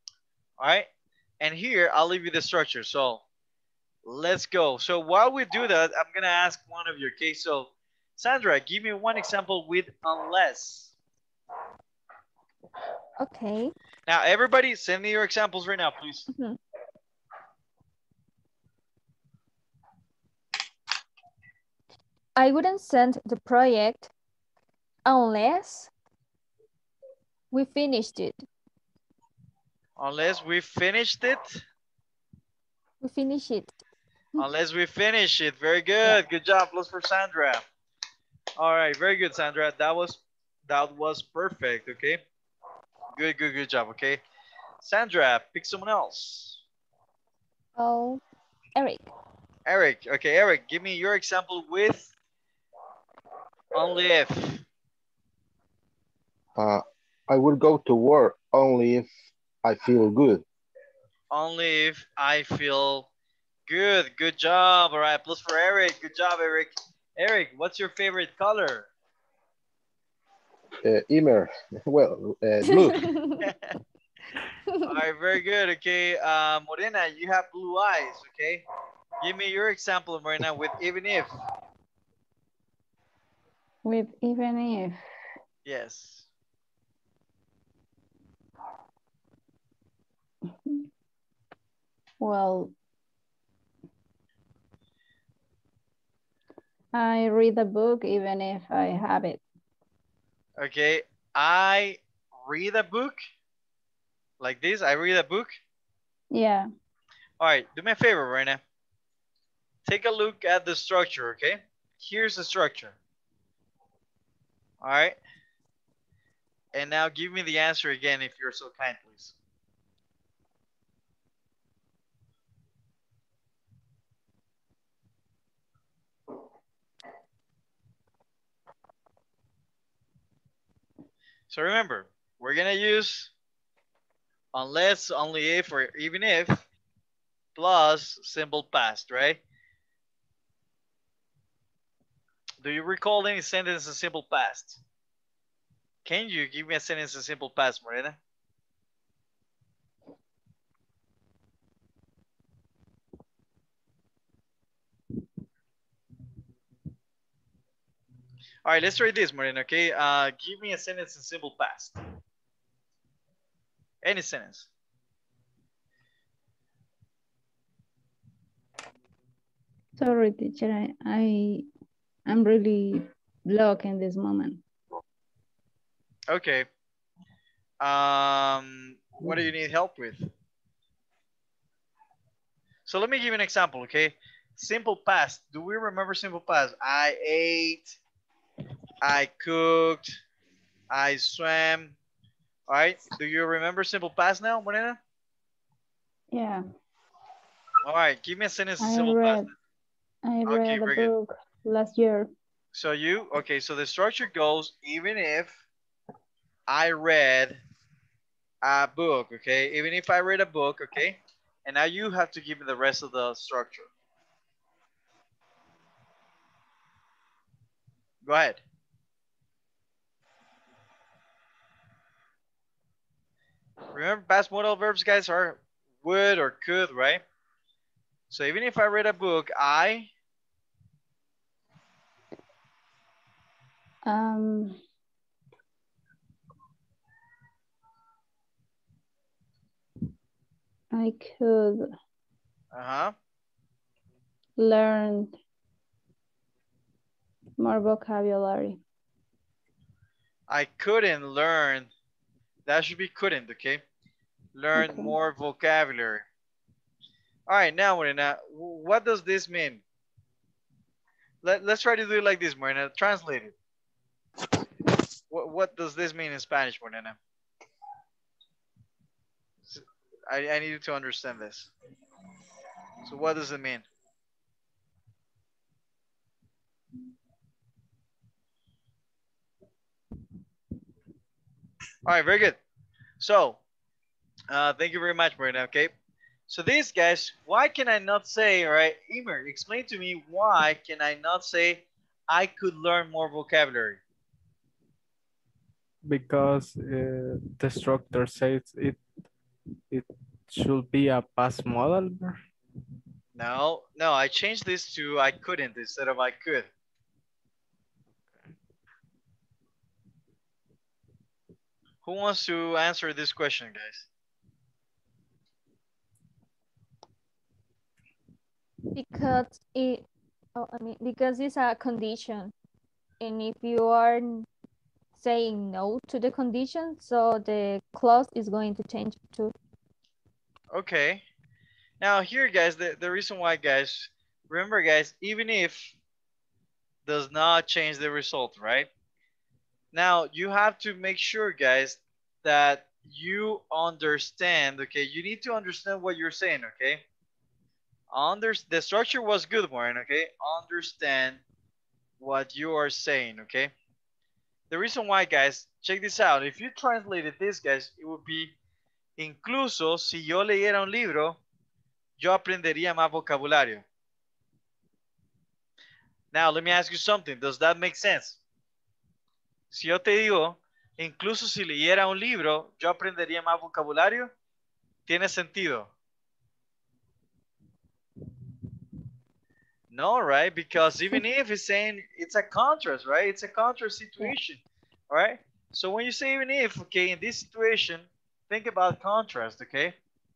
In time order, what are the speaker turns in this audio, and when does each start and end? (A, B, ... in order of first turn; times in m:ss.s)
0:00.6-0:00.9 A
0:01.4-0:03.2 A
0:04.0-0:10.9 A
0:13.2-0:13.7 B
0:14.0-0:16.3 A
0:16.3-0:16.6 B
0:22.4-0:24.1 B
0:25.0-0:25.9 B
0:27.5-0:28.4 B
0:30.0-0:31.6 A
0:33.0-0:33.8 B
0:34.4-0:37.6 A
0:38.6-0:42.2 A
0:43.1-0:44.2 A
0:44.8-0:46.6 A
0:47.8-0:48.2 B
0:48.8-0:49.1 B
0:49.6-0:52.1 A
0:53.7-0:54.6 A
0:56.6-0:59.1 C
0:59.6-1:00.4 C
1:01.3-1:03.1 A
1:03.6-1:08.9 A
1:10.8-1:13.1 C
1:12.7-1:13.4 B
1:13.4-1:13.7 A
1:14.8-1:18.6 A
1:19.2-1:21.3 A
1:23.8-1:25.0 D
1:25.6-1:26.3 A
1:32.2-1:32.7 D
1:36.9-1:39.4 D
1:40.6-1:43.2 A
1:44.4-1:45.6 A
1:46.3-1:46.7 D
1:47.4-1:48.6 A
1:49.8-1:53.0 A
1:54.8-1:55.2 A
1:56.7-1:59.3 A
2:11.5-2:13.3 A
2:14.5-2:16.6 A
2:17.6-2:19.4 A
2:22.6-2:24.8 A
2:26.0-2:28.2 A
2:38.6-2:42.0 A
2:44.0-2:44.7 A
2:50.0-2:51.7 D
2:52.3-2:54.6 D
2:56.3-2:56.7 A
2:57.8-3:00.2 A
3:02.8-3:08.0 A
3:09.0-3:10.2 A
3:10.9-3:12.0 A
3:12.7-3:15.0 A
3:16.3-3:16.6 D
3:17.8-3:19.4 A
3:18.8-3:19.5 D
3:20.2-3:22.3 D
3:20.4-3:21.1 A
3:22.7-3:25.6 A
3:26.7-3:27.6 A
3:28.6-3:33.9 A
3:38.2-3:38.6 A
3:43.9-3:47.2 A
3:48.3-3:50.1 A
3:54.0-3:54.8 D
4:00.9-4:01.8 D
4:02.7-4:03.1 A
4:04.6-4:05.3 D
4:07.6-4:08.8 D
4:10.5-4:11.9 A
4:12.6-4:13.8 A
4:14.5-4:16.2 A
4:14.8-4:15.1 D
4:17.5-4:19.8 A
4:21.4-4:23.5 A
4:25.3-4:27.2 A
4:29.7-4:31.7 A
4:33.0-4:33.8 A
4:42.0-4:42.6 A
4:43.2-4:43.6 A
4:44.5-4:45.9 A
4:46.5-4:54.0 A
4:56.0-4:59.0 E
4:59.9-5:02.4 E
5:03.4-5:06.7 A
5:12.0-5:14.1 A
5:18.9-5:22.5 B
5:23.2-5:24.5 B
5:25.1-5:29.5 B
5:30.7-5:31.2 A
5:32.0-5:36.0 A
5:37.0-5:38.9 A
5:39.9-5:47.0 A
5:48.1-5:51.4 A
5:52.2-5:53.7 A
5:54.7-5:58.5 A
5:59.2-6:01.4 A
6:02.2-6:03.8 A
6:06.3-6:08.4 A
6:09.7-6:14.3 A
6:15.0-6:15.9 A
6:19.9-6:30.0 A